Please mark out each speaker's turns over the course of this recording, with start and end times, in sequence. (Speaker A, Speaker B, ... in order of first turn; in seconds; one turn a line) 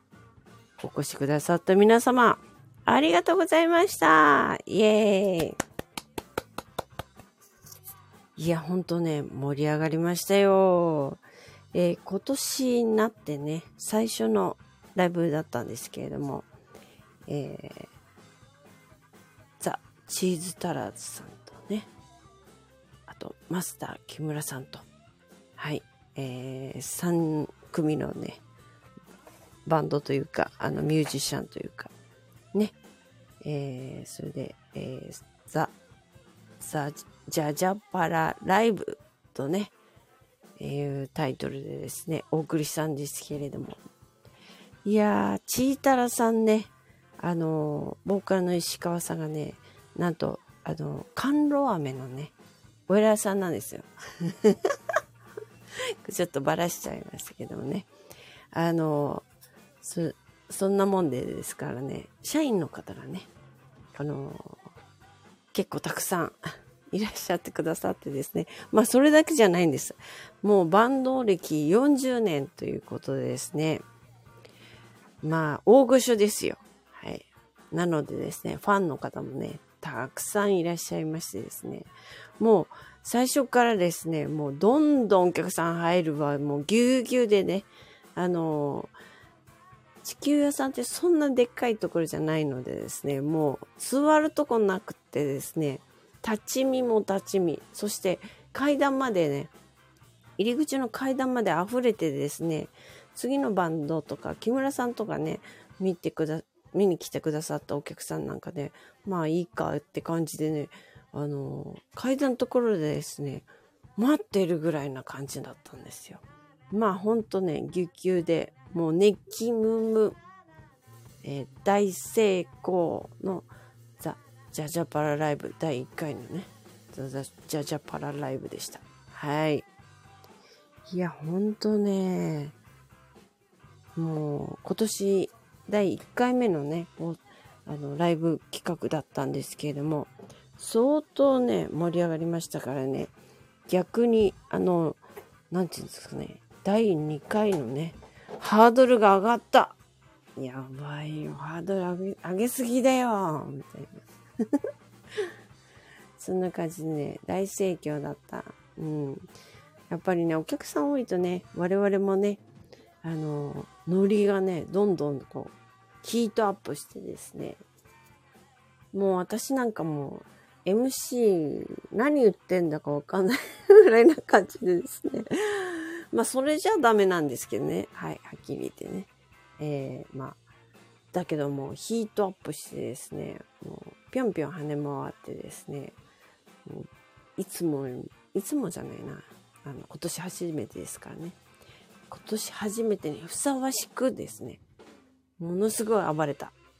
Speaker A: 0.8-5.6
Speaker A: 8.4-11.2
Speaker A: 11.7-16.5
Speaker A: 17.3-17.9
Speaker A: 19.6-21.9
Speaker A: 23.1-24.8
Speaker A: 25.6-28.4
Speaker A: 29.7-31.9
Speaker A: 33.4-35.7
Speaker A: 36.6-39.7
Speaker A: 40.6-43.8
Speaker A: 44.8-52.3
Speaker A: 52.9-54.6
Speaker A: 56.0-57.9
Speaker A: 58.5-59.2
Speaker A: 59.8-63.3
Speaker A: 63.9-64.7
Speaker A: 65.5-66.4
Speaker A: 66.9-73.8
Speaker A: 75.2-88.9
Speaker A: 90.0-99.5
Speaker A: 100.4-120.2
Speaker A: 121.2-123.5
Speaker A: 124.0-129.7
Speaker A: 130.9-132.6
Speaker A: 134.0-143.1
Speaker A: 143.7-149.8
Speaker A: 150.4-154.6
Speaker A: 156.2-159.3
Speaker A: 159.9-162.4
Speaker A: 163.0-167.6
Speaker A: 168.9-180.4
Speaker A: 181.1-186.0
Speaker A: 186.7-191.4
Speaker A: 192.1-194.6
Speaker A: 195.4-196.5